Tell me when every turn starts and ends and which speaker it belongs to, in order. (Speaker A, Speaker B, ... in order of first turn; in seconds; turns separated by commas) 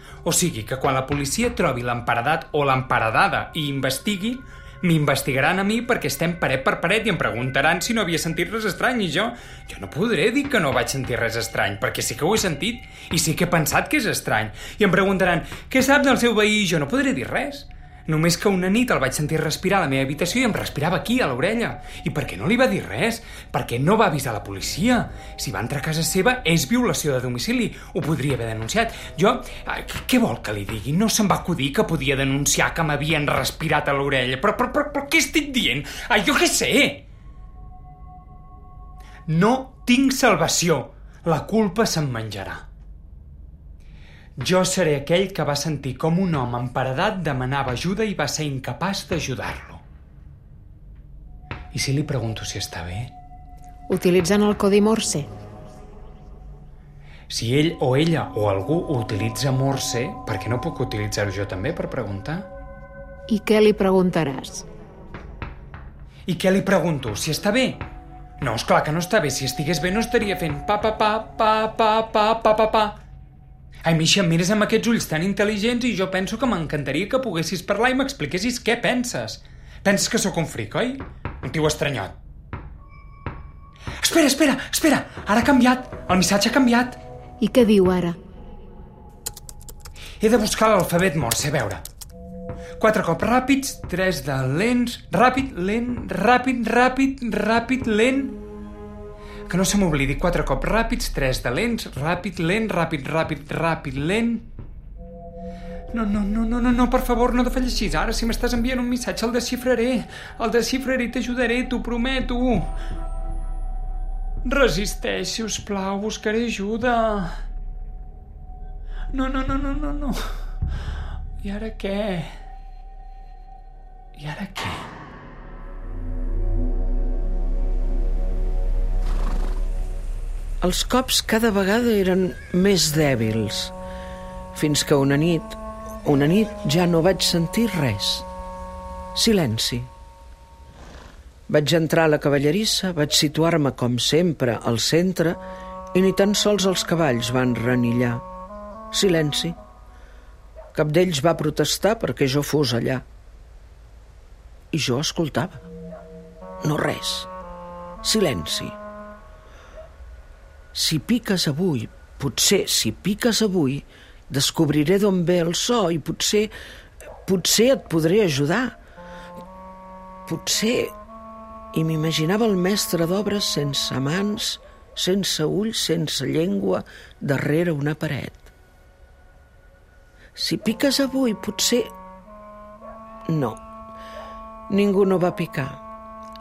Speaker A: 0.2-37.0, Speaker A: 39.3-42.7, Speaker A: 44.4-49.8, Speaker A: 51.7-53.1, Speaker B: 53.9-55.3, Speaker A: 57.3-62.5, Speaker B: 63.3-64.7, Speaker A: 66.2-67.8, Speaker A: 68.4-73.0, Speaker A: 73.8-82.2, Speaker A: 84.0-87.0, Speaker B: 87.4-88.2, Speaker A: 90.2-91.8, Speaker A: 92.8-98.4, Speaker A: 99.5-104.5, Speaker A: 105.9-112.7, Speaker A: 114.4-117.4, Speaker A: 119.1-120.4, Speaker A: 121.4-122.3, Speaker A: 124.1-124.9, Speaker C: 130.6-133.7, Speaker C: 134.5-138.2, Speaker C: 139.1-139.9, Speaker C: 141.5-145.4, Speaker C: 145.9-148.2, Speaker C: 148.9-149.6, Speaker C: 150.7-153.0, Speaker C: 154.7-155.7, Speaker C: 156.6-157.3, Speaker C: 158.0-158.8, Speaker C: 160.7-166.5, Speaker C: 167.2-168.8, Speaker C: 170.3-170.9, Speaker C: 171.7-178.5, Speaker C: 180.3-181.9, Speaker C: 183.3-183.6, Speaker C: 184.7-185.8